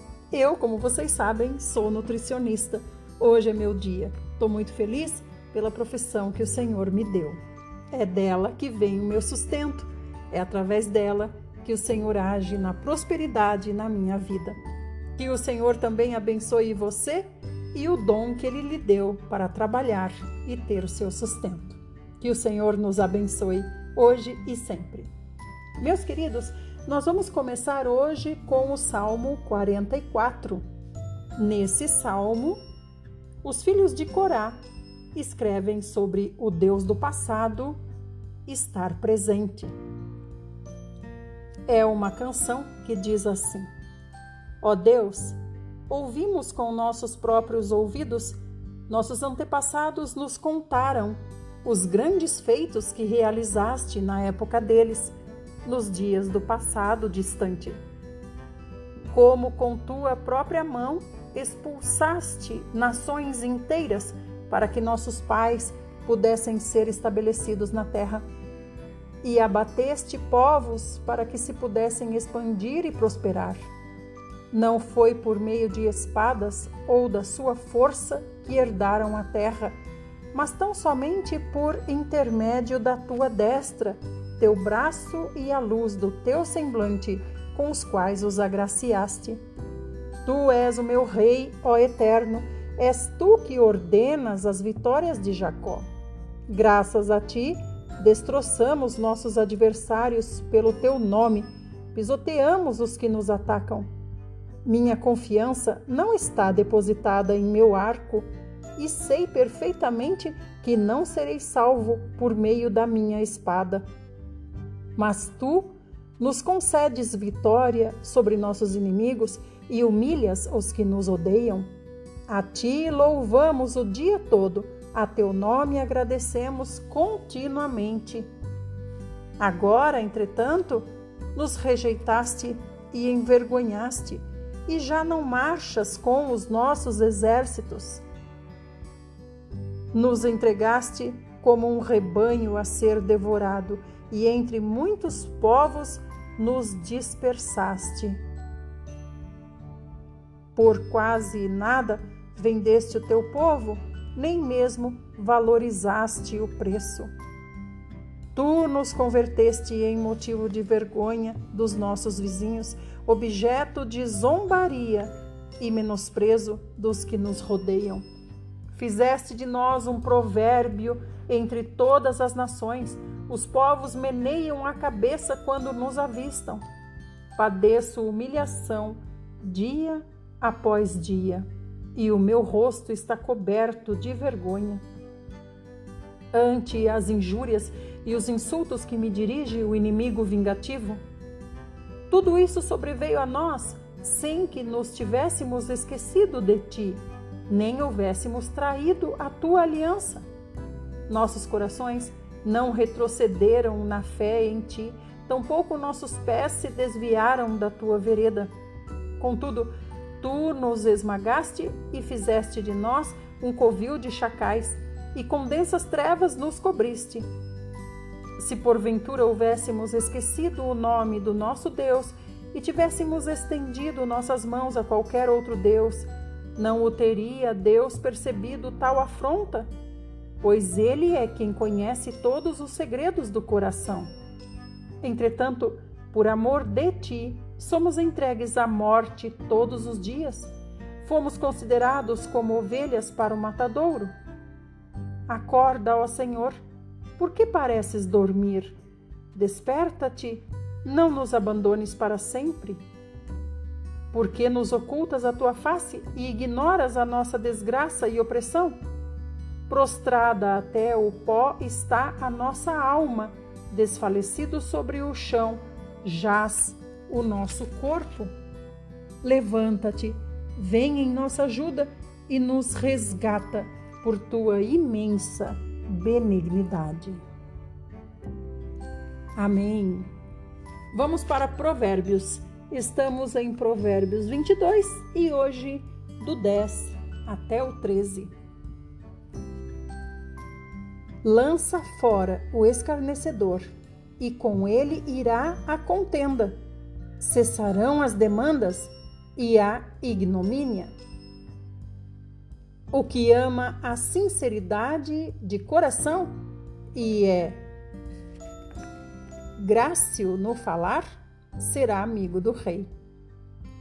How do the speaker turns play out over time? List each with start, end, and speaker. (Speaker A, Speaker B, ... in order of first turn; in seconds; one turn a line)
Speaker A: 0.3-7.4
Speaker A: 7.9-14.6
Speaker A: 15.2-25.1
Speaker A: 25.8-30.6
Speaker A: 31.4-32.6
Speaker A: 33.4-34.6
Speaker A: 35.1-37.8
Speaker A: 38.5-39.7
Speaker A: 41.6-43.7
Speaker A: 44.6-45.4
Speaker A: 45.9-57.8
Speaker A: 59.1-68.2
Speaker A: 69.2-73.6
Speaker A: 74.5-79.7
Speaker A: 80.3-89.4
Speaker A: 90.2-95.9
Speaker A: 96.5-103.9
Speaker A: 104.6-113.8
Speaker A: 115.0-121.7
Speaker A: 122.3-128.3
Speaker A: 129.4-138.0
Speaker A: 139.9-148.2
Speaker A: 150.5-157.1
Speaker A: 158.3-168.0
Speaker A: 168.7-176.6
Speaker A: 177.3-184.8
Speaker A: 186.3-191.0
Speaker A: 192.1-200.2
Speaker A: 201.1-208.5
Speaker A: 209.2-217.2
Speaker A: 218.4-229.7
Speaker A: 230.4-234.1
Speaker A: 235.0-244.1
Speaker A: 245.3-246.6
Speaker A: 247.2-248.7
Speaker A: 249.3-252.8
Speaker A: 254.1-258.8
Speaker A: 259.7-268.3
Speaker A: 269.2-277.2
Speaker A: 279.4-280.1
Speaker A: 280.9-288.3
Speaker A: 291.2-296.6
Speaker A: 297.2-300.9
Speaker A: 302.9-306.3
Speaker A: 306.9-307.6
Speaker A: 309.6-312.9